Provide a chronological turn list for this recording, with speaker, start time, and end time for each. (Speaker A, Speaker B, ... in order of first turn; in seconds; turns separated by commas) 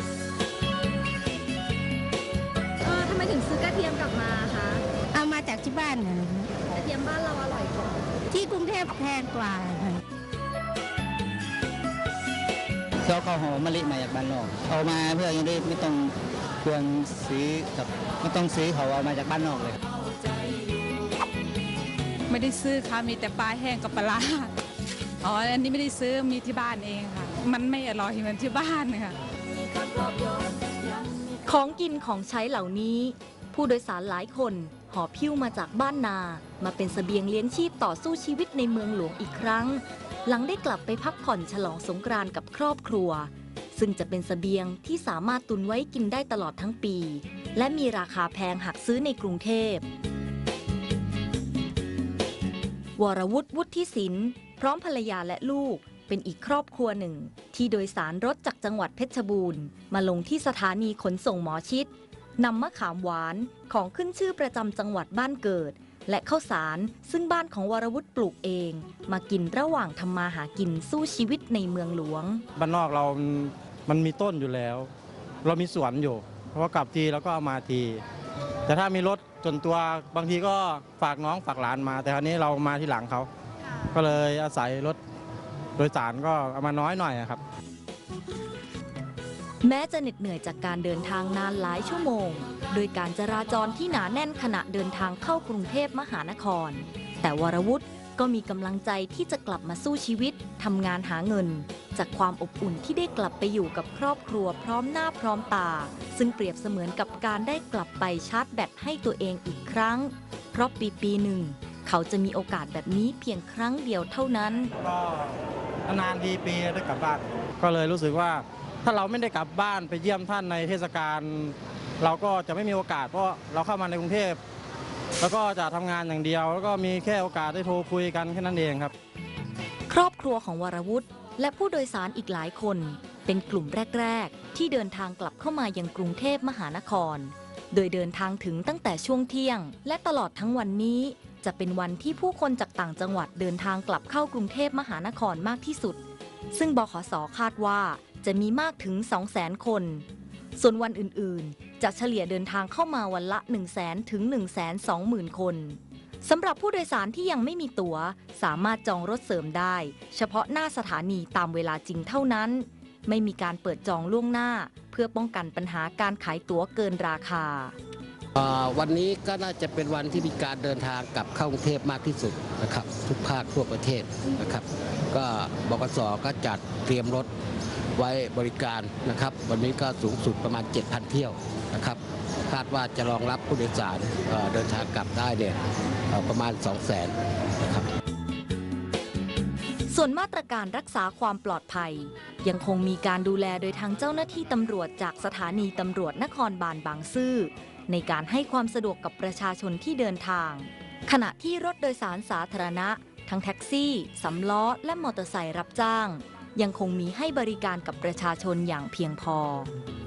Speaker A: 2.8-4.8, Speaker B: 5.1-6.5, Speaker A: 6.7-7.8, Speaker B: 8.3-10.0, Speaker C: 13.1-16.1, Speaker C: 16.6-19.8, Speaker D: 22.3-24.5, Speaker D: 25.2-29.2, Speaker E: 31.4-49.9, Speaker E: 53.0-72.4, Speaker F: 72.6-74.9, Speaker F: 75.4-78.0, Speaker F: 78.7-83.3, Speaker F: 83.9-85.0, Speaker F: 85.8-87.4, Speaker E: 89.6-114.7, Speaker F: 114.8-124.4, Speaker F: 125.2-128.9, Speaker E: 129.9-146.0, Speaker E: 146.5-150.1, Speaker E: 150.6-167.7, Speaker G: 168.3-177.3, Speaker G: 178.0-187.9, Speaker E: 189.9-209.7